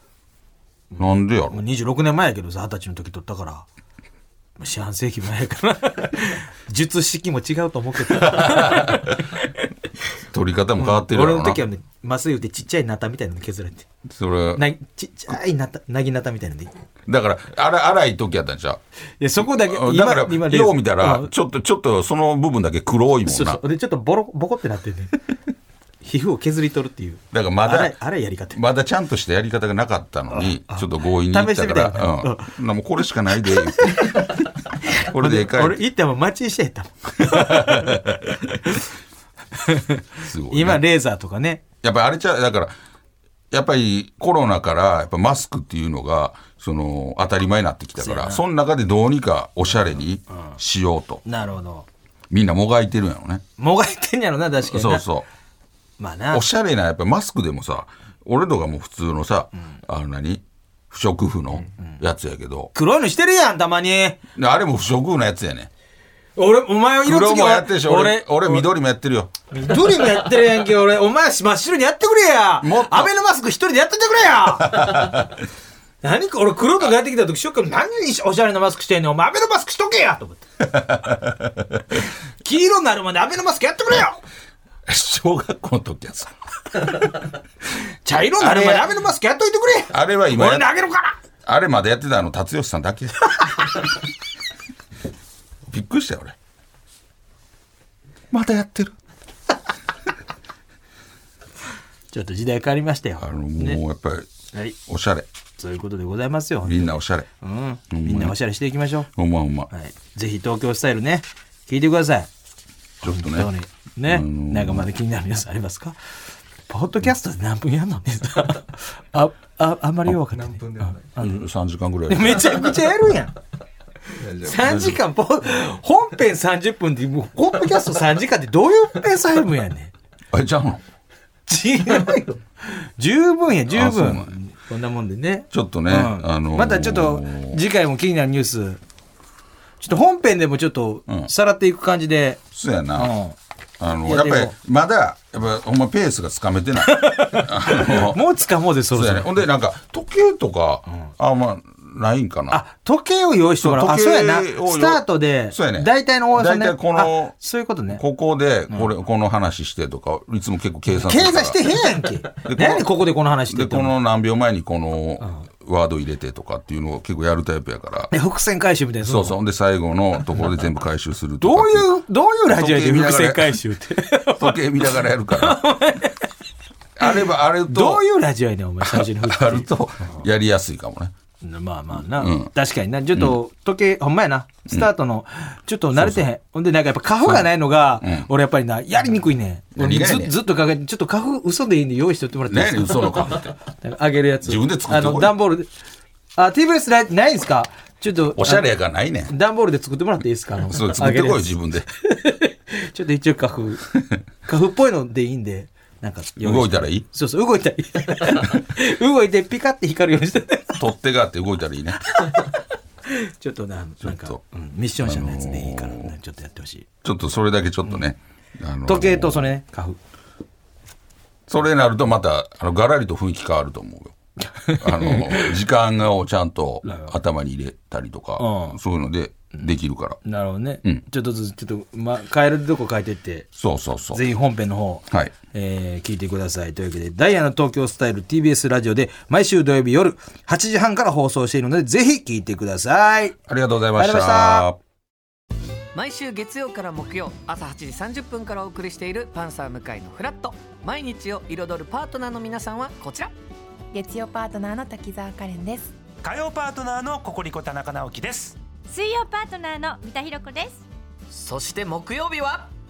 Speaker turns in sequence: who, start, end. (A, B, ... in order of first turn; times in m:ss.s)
0:00.9-0:03.7 A
0:01.0-0:01.6 B
0:04.6-0:09.3 A
0:08.2-0:09.0 B
0:10.3-0:11.6 B
0:10.8-0:13.9 A
0:14.2-0:14.7 B
0:14.6-0:16.8 A
0:17.1-0:18.8 B
0:19.2-0:21.3 A
0:19.4-0:23.6 B
0:23.2-0:25.2 A
0:26.0-0:28.6 A
0:27.3-0:28.0 B
0:28.5-0:34.3 B
0:30.3-0:32.5 A
0:33.5-0:34.4 A
0:35.0-0:35.8 B
0:35.0-0:38.2 A
0:37.3-0:38.1 B
0:39.6-0:41.6 A
0:40.2-0:40.8 B
0:41.8-0:42.7 B
0:43.5-0:51.2 B
0:48.0-0:48.4 A
0:51.2-0:51.9 A
0:52.3-0:53.4 B
0:53.6-0:55.1 A
0:54.6-0:55.3 B
0:56.0-0:56.5 A
0:56.3-1:02.7 B
1:02.7-1:04.2 A
1:04.4-1:05.7 B
1:06.4-1:08.7 A
1:07.0-1:09.3 B
1:09.5-1:15.2 A
1:12.6-1:13.1 B
1:14.7-1:15.2 B
1:16.0-1:20.6 A
1:20.8-1:21.3 B
1:22.4-1:24.2 A
1:24.9-1:26.3 B
1:28.0-1:31.1 A
1:28.4-1:28.9 B
1:29.9-1:30.7 B
1:31.4-1:33.7 B
1:35.7-1:36.4 B
1:38.3-1:39.0 B
1:42.1-1:43.8 A
1:43.2-1:44.3 B
1:44.9-1:45.3 B
1:45.6-1:46.9 A
1:46.6-1:47.3 B
1:47.4-1:49.1 A
1:47.9-1:48.4 B
1:49.1-1:49.7 B
1:49.7-1:52.3 A
1:53.0-1:53.5 B
1:53.0-1:56.0 A
1:54.0-1:54.9 B
1:56.7-2:01.3 A
2:01.1-2:02.8 B
2:02.1-2:03.4 A
2:04.2-2:09.9 A
2:04.5-2:05.0 B
2:10.3-2:10.8 B
2:11.5-2:18.8 A
2:13.7-2:14.4 B
2:15.5-2:17.6 B
2:19.8-2:22.4 A
2:22.5-2:23.2 B
2:23.0-2:23.4 A
2:23.8-2:28.2 B
2:24.0-2:24.6 A
2:26.8-2:29.4 A
2:28.9-2:32.6 B
2:32.5-2:38.0 A
2:33.6-2:37.4 B
2:37.9-2:41.8 B
2:40.9-2:43.9 A
2:42.3-2:43.0 B
2:43.5-2:48.1 B
2:48.1-2:49.4 A
2:49.0-2:51.9 B
2:51.4-2:56.3 A
2:52.5-2:53.6 B
2:54.4-2:55.6 B
2:57.0-2:58.0 B
2:57.0-3:00.2 A
2:58.8-3:01.1 B
3:01.4-3:15.7 A
3:02.0-3:02.5 B
3:03.1-3:03.4 B
3:05.9-3:06.3 B
3:07.2-3:08.3 B
3:09.8-3:10.4 B
3:12.5-3:13.5 B
3:14.4-3:15.4 B
3:16.4-3:18.7 A
3:18.3-3:19.3 B
3:19.3-3:23.9 A
3:20.7-3:21.9 B
3:24.4-3:30.9 A
3:26.4-3:27.0 B
3:30.8-3:32.0 B
3:33.1-3:36.9 A
3:34.0-3:34.4 B
3:35.0-3:36.1 B
3:37.0-3:39.5 B
3:38.9-3:40.0 A
3:41.5-3:44.1 B
3:44.5-3:45.5 A
3:44.8-3:50.2 B
3:48.4-3:48.8 A
3:50.2-3:53.5 A
3:53.6-3:54.2 B
3:54.1-4:03.4 A
4:03.5-4:04.8 B
4:04.0-4:04.7 A
4:05.9-4:13.3 C
4:13.9-4:16.0 D
4:16.2-4:18.6 E
4:18.9-4:20.9 F
4:21.3-4:22.7 C